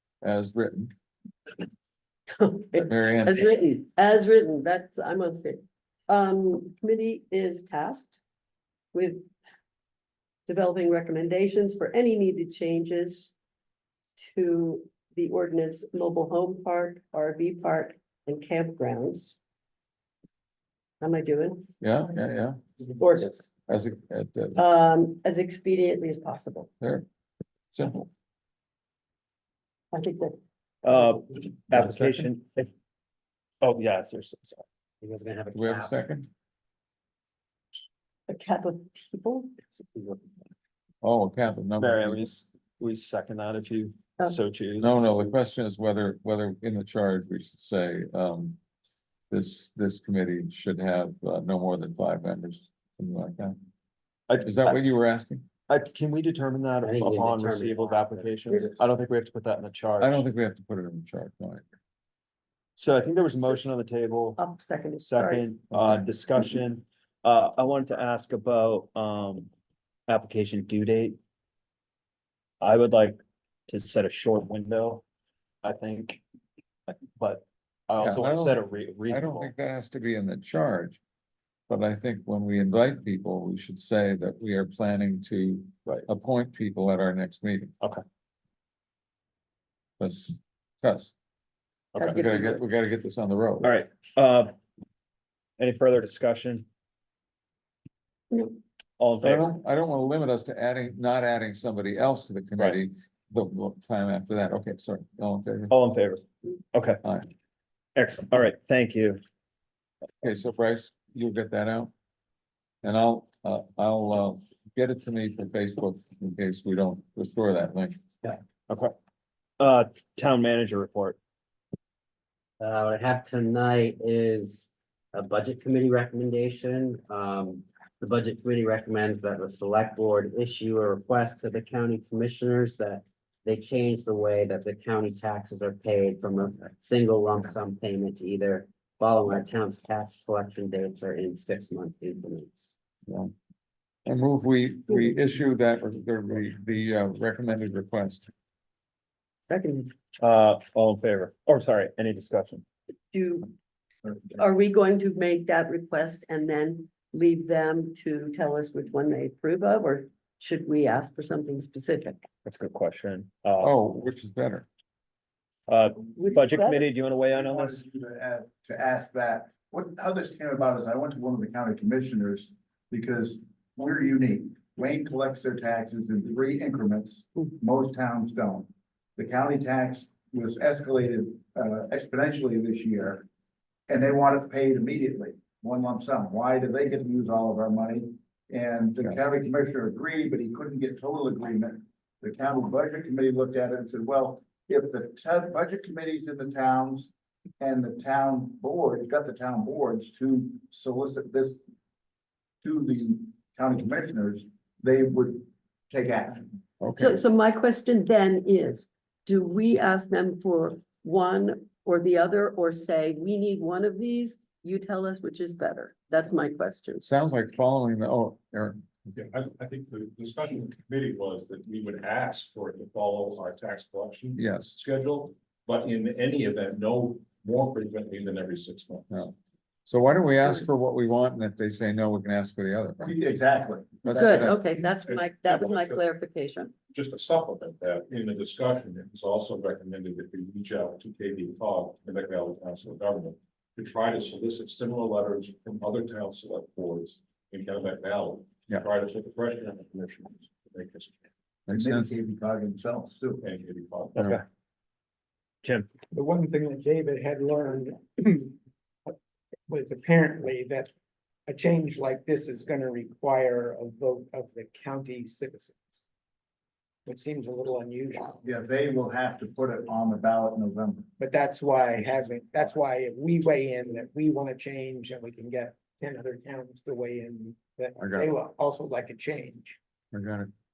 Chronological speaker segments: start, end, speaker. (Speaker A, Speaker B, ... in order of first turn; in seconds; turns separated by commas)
Speaker A: 0.2-0.9, Speaker B: 2.3-8.2, Speaker A: 2.8-3.5, Speaker B: 8.9-9.3, Speaker B: 10.5-13.3, Speaker B: 14.2-19.4, Speaker B: 21.0-21.8, Speaker A: 21.8-22.6, Speaker B: 23.0-23.5, Speaker A: 23.7-24.6, Speaker B: 24.6-26.7, Speaker A: 26.8-27.1, Speaker A: 27.7-28.1, Speaker B: 29.9-30.4, Speaker C: 30.8-32.7, Speaker C: 33.6-34.6, Speaker D: 35.0-36.0, Speaker A: 35.5-36.3, Speaker B: 38.3-39.6, Speaker D: 39.8-40.2, Speaker A: 41.0-42.3, Speaker C: 41.8-44.9, Speaker A: 44.8-48.6, Speaker A: 49.3-53.6, Speaker C: 54.3-54.8, Speaker A: 54.4-55.5, Speaker C: 55.7-60.2, Speaker D: 56.8-58.8, Speaker A: 60.0-61.6, Speaker C: 62.8-64.4, Speaker B: 64.4-65.5, Speaker C: 65.0-69.5, Speaker A: 65.7-66.1, Speaker C: 70.1-71.2, Speaker C: 72.6-75.0, Speaker C: 75.6-76.2, Speaker C: 76.9-79.5, Speaker A: 78.0-81.0, Speaker A: 81.7-87.8, Speaker A: 90.0-91.1, Speaker B: 92.0-92.6, Speaker A: 92.1-93.7, Speaker C: 93.6-94.5, Speaker C: 95.6-96.7, Speaker B: 98.3-98.6, Speaker C: 99.0-99.4, Speaker A: 99.2-105.7, Speaker C: 105.7-107.0, Speaker C: 108.0-109.2, Speaker A: 110.2-111.9, Speaker A: 112.8-118.0, Speaker C: 118.7-118.9, Speaker C: 119.6-121.2, Speaker D: 122.6-142.8, Speaker A: 144.1-148.3, Speaker B: 149.5-150.0, Speaker C: 150.2-152.6, Speaker B: 153.1-153.5, Speaker E: 154.0-154.4, Speaker B: 154.4-162.3, Speaker C: 162.4-163.7, Speaker A: 163.6-164.7, Speaker C: 165.7-167.8, Speaker B: 166.2-166.9, Speaker E: 167.2-183.2, Speaker E: 183.9-201.6, Speaker E: 202.6-206.6, Speaker A: 206.8-207.2, Speaker B: 206.9-217.1, Speaker A: 217.0-219.1, Speaker F: 219.1-229.1, Speaker A: 224.4-224.7, Speaker A: 229.1-229.3, Speaker A: 229.9-233.1, Speaker E: 233.0-234.2, Speaker A: 234.0-234.6, Speaker B: 234.2-236.8, Speaker F: 235.0-236.0, Speaker F: 236.9-251.2, Speaker A: 251.7-252.1, Speaker E: 251.7-253.4, Speaker F: 253.4-254.3, Speaker C: 254.2-254.4, Speaker C: 255.6-255.9, Speaker G: 256.1-258.6, Speaker G: 259.7-260.9, Speaker G: 261.5-266.0, Speaker G: 267.1-268.4, Speaker E: 268.4-271.1, Speaker G: 271.2-279.8, Speaker A: 278.0-278.3, Speaker A: 280.1-280.5